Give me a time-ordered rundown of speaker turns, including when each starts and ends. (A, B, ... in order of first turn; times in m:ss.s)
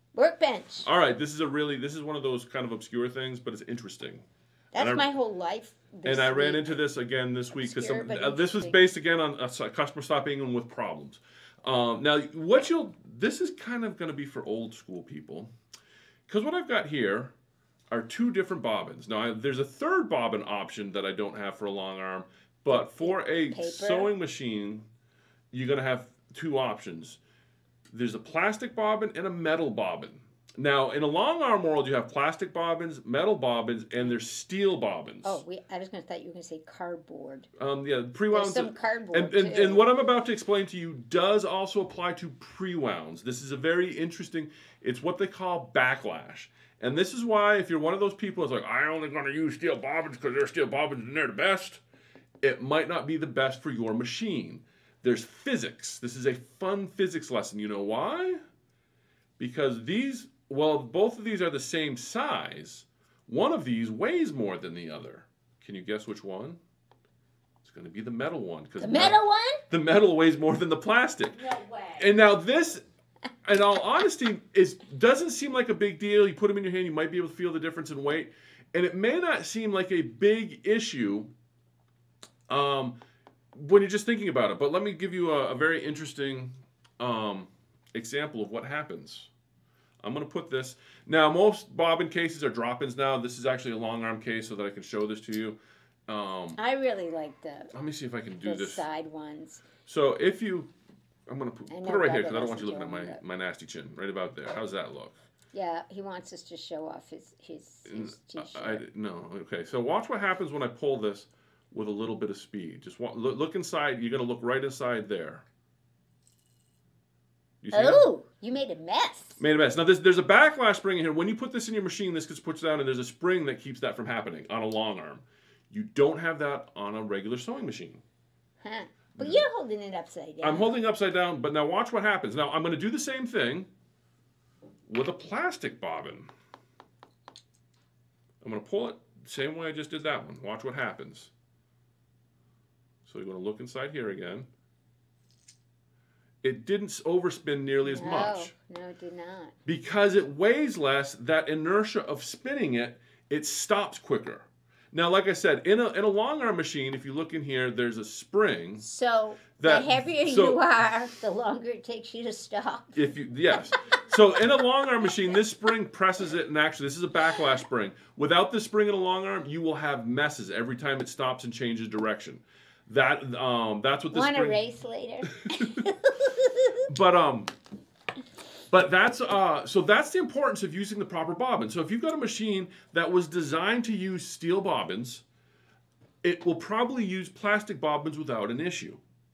0:00.1-0:00.9 A
0:00.8-0:04.2 B
0:04.7-0:06.8 A
0:04.8-0:05.1 B
0:06.0-0:15.5 B
0:07.5-0:08.8 A
0:16.3-0:17.3 B
0:17.9-0:24.9 B
0:22.7-0:24.1 A
0:25.5-0:27.2 B
0:27.9-0:35.4 B
0:35.2-0:37.5 A
0:37.6-0:51.8 B
0:38.3-0:39.9 A
0:52.4-0:58.4 B
0:59.4-1:06.6 B
1:07.6-1:11.4 B
1:08.8-1:09.6 A
1:11.4-1:12.1 A
1:12.0-1:12.8 B
1:13.4-1:21.3 B
1:22.5-1:23.0 B
1:23.5-1:29.3 B
1:30.0-1:35.6 B
1:36.1-1:36.6 B
1:36.6-1:37.7 A
1:37.7-1:38.9 B
1:38.4-1:39.7 A
1:39.8-1:40.7 B
1:41.3-1:45.2 B
1:41.7-1:43.2 A
1:45.5-1:48.8 A
1:47.9-1:55.4 B
1:57.6-1:58.1 B
1:57.7-1:59.4 A
1:59.4-2:08.0 B
2:08.6-2:10.7 A
2:09.2-2:09.4 B
2:10.4-2:13.7 B
2:14.9-2:16.3 B
2:18.4-2:21.3 B
2:23.0-2:24.5 B
2:26.4-2:28.5 B
2:27.8-2:29.6 A
2:29.6-2:38.9 B
2:38.8-2:43.0 A
2:39.6-2:40.6 B
2:42.9-2:54.6 B
2:54.1-2:56.8 A
2:56.9-2:57.5 B
2:58.7-3:05.2 B
3:06.2-3:09.0 B